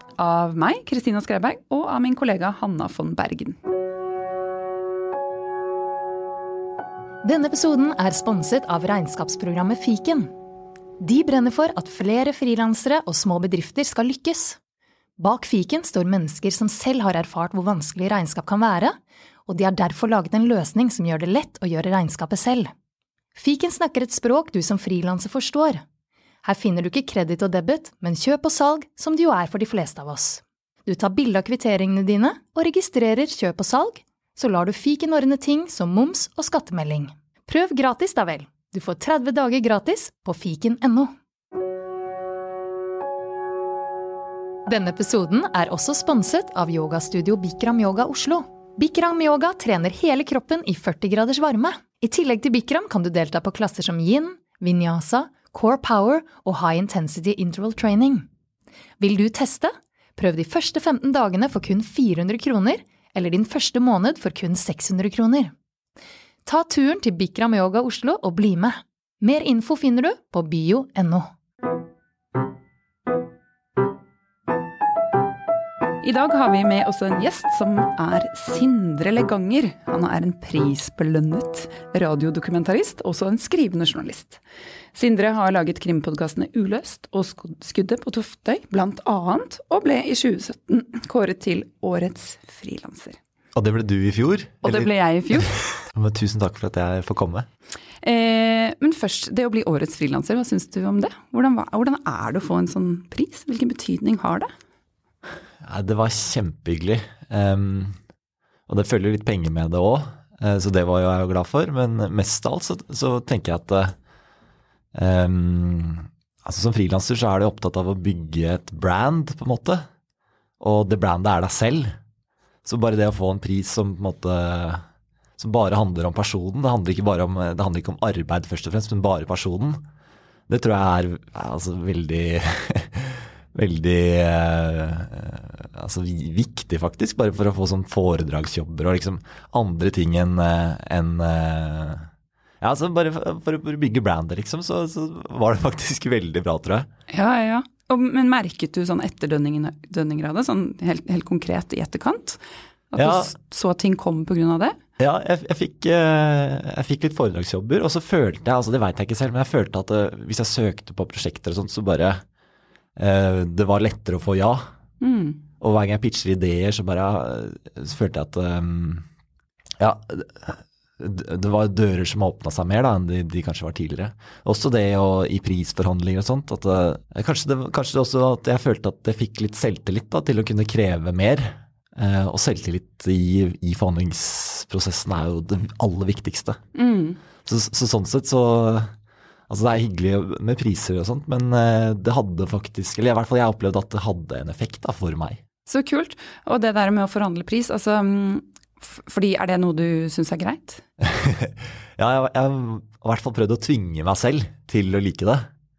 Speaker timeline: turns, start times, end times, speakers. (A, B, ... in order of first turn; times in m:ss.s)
0:00.2-0:03.6 A
0:07.2-0:10.3 B
0:11.0-0:14.6 B
0:15.2-0:22.7 B
0:23.4-0:25.8 B
0:26.4-0:41.1 B
0:44.7-0:58.3 B
0:59.0-1:05.5 B
1:06.4-1:11.3 B
1:16.0-1:24.4 A
1:24.9-1:33.2 A
1:33.6-1:37.5 C
1:34.6-1:35.5 A
1:38.0-1:44.5 A
1:45.6-1:48.0 C
1:48.7-1:53.9 C
1:54.9-1:59.8 C
2:00.6-2:02.0 C
2:02.6-2:04.8 C
2:05.4-2:09.8 C
2:10.5-2:22.1 C
2:22.6-2:26.9 C
2:27.1-2:32.4 A
2:32.9-2:34.8 A
2:33.0-2:33.3 C
2:35.0-2:42.2 C
2:43.0-2:44.6 C
2:45.0-2:45.4 A
2:45.6-2:49.1 C
2:49.8-3:06.6 C
3:06.8-3:07.2 A
3:07.4-3:08.9 C
3:09.5-3:15.4 C
3:15.7-3:20.8 A
3:21.0-3:25.5 C